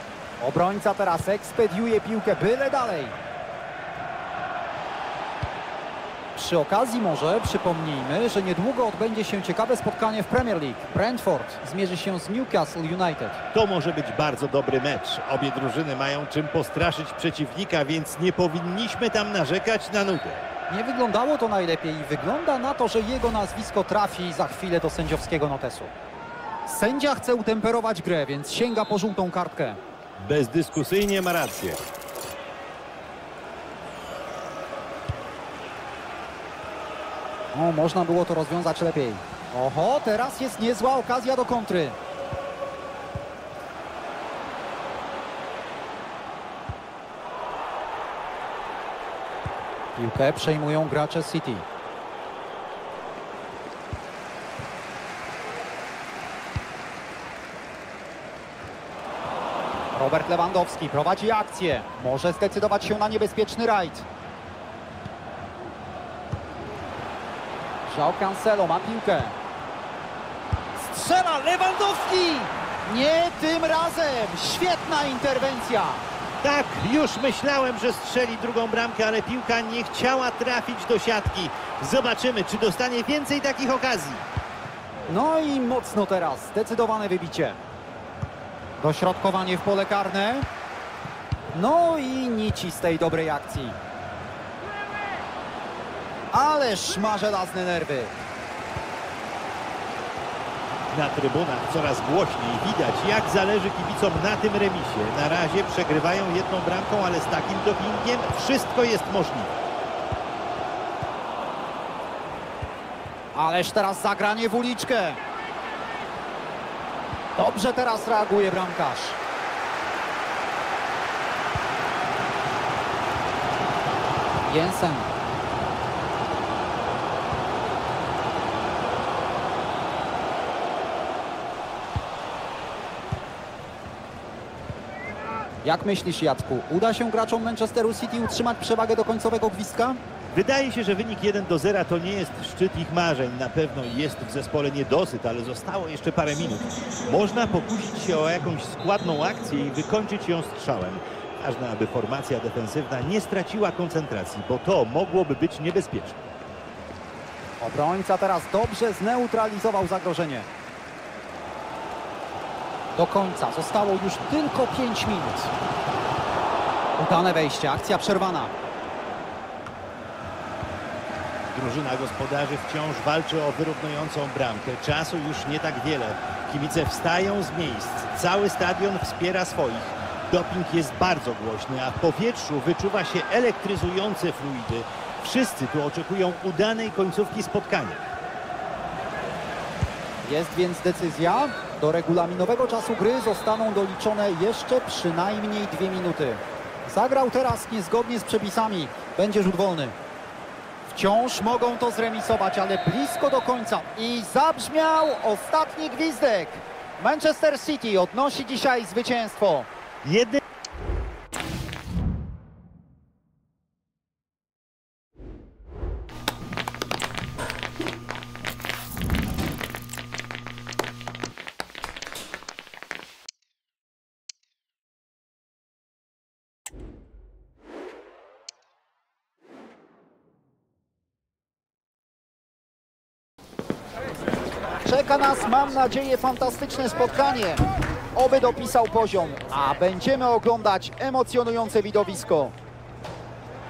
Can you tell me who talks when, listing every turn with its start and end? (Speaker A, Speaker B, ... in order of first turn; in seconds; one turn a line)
Speaker A: 0.4-3.1
Speaker A: 6.3-13.4
Speaker B: 13.5-20.5
Speaker A: 20.7-25.9
Speaker A: 26.6-29.8
Speaker B: 30.2-31.8
Speaker A: 37.5-42.0
Speaker A: 50.0-51.6
Speaker A: 59.9-64.0
Speaker A: 67.8-69.3
Speaker A: 70.7-76.0
Speaker B: 76.4-84.3
Speaker A: 85.1-87.6
Speaker A: 88.8-90.5
Speaker A: 91.5-93.8
Speaker A: 96.3-98.1
Speaker B: 100.9-109.6
Speaker A: 113.3-115.2
Speaker A: 117.3-119.2
Speaker A: 124.4-125.1
Speaker A: 135.6-140.0
Speaker B: 140.3-156.3
Speaker A: 157.6-160.5
Speaker A: 162.9-165.5
Speaker A: 167.0-168.5
Speaker B: 171.5-188.1
Speaker A: 190.2-199.9
Speaker A: 200.8-209.7
Speaker B: 210.0-210.4
Speaker A: 234.8-242.5